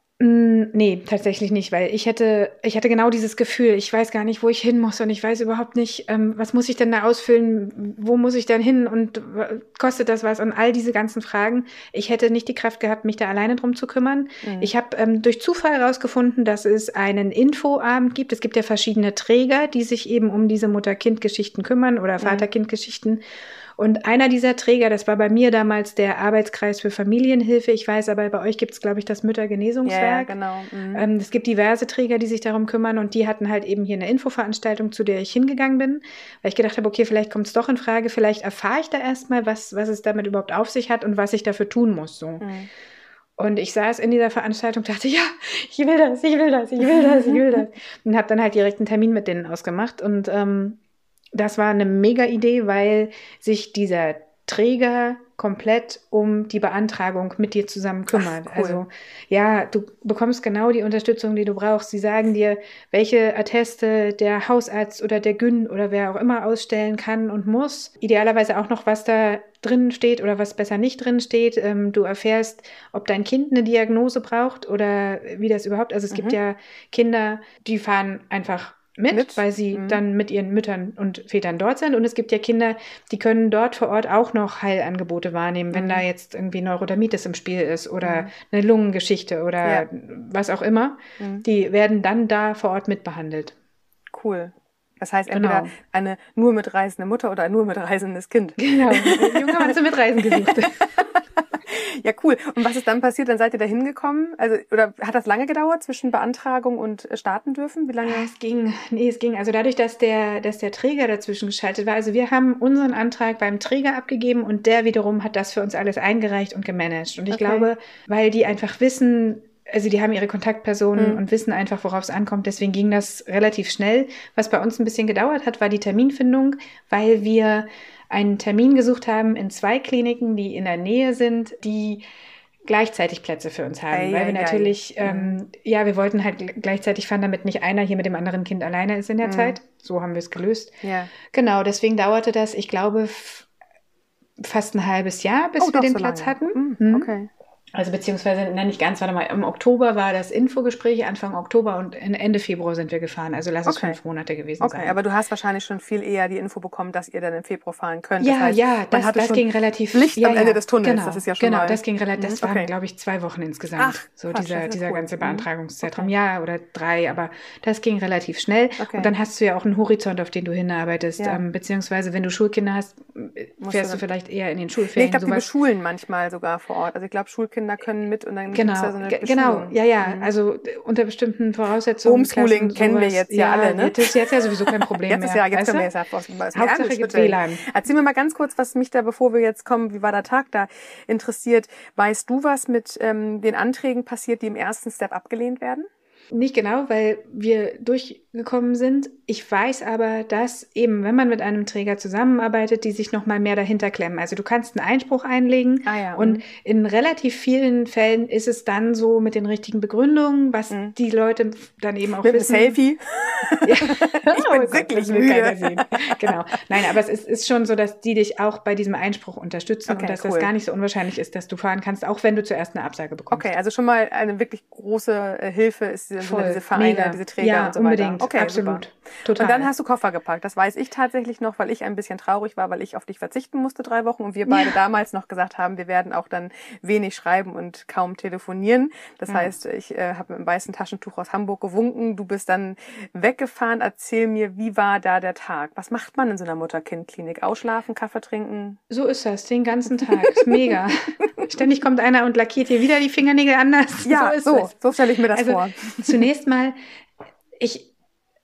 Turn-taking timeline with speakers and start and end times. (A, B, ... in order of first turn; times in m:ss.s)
0:00.2-0:23.2 A
0:14.4-0:14.7 B
0:22.2-0:22.5 B
0:23.8-0:30.3 A
0:29.8-0:31.1 B
0:30.9-0:42.5 A
0:42.4-0:42.7 B
0:43.4-0:50.8 A
0:47.0-0:47.4 B
0:51.3-1:33.6 A
0:58.1-0:58.8 B
1:16.1-1:16.4 B
1:19.1-1:20.0 B
1:25.7-1:26.0 B
1:28.0-1:28.3 B
1:31.2-1:31.4 B
1:34.1-1:39.7 B
1:35.3-1:35.7 A
1:38.6-1:40.9 A
1:40.4-1:41.0 B
1:41.7-1:48.3 B
1:48.0-2:12.0 A
1:57.3-1:57.7 B
2:01.0-2:01.2 B
2:12.7-2:20.7 A
2:13.9-2:15.4 B
2:19.2-2:19.6 B
2:20.8-2:21.1 B
2:21.3-2:23.5 A
2:24.4-2:27.1 A
2:25.6-2:27.3 B
2:27.7-2:35.0 A
2:33.7-2:34.0 B
2:34.6-2:42.7 B
2:38.2-2:55.5 A
2:43.8-2:46.1 B
2:48.8-2:49.1 B
2:53.6-2:54.0 B
2:54.9-3:00.3 B
2:58.5-3:05.9 A
3:02.0-3:04.1 B
3:04.7-3:15.9 B
3:06.5-3:07.6 A
3:16.3-3:32.8 A
3:25.8-3:26.4 B
3:32.2-3:36.2 B
3:33.6-3:43.5 A
3:39.9-3:40.5 B
3:43.3-3:48.8 B
3:46.2-3:49.7 A
3:49.4-4:08.8 B
3:54.5-3:54.8 A
3:59.3-3:59.5 A
4:08.9-4:16.8 A
4:10.3-4:10.8 B
4:14.0-4:16.3 B
4:17.6-4:17.9 A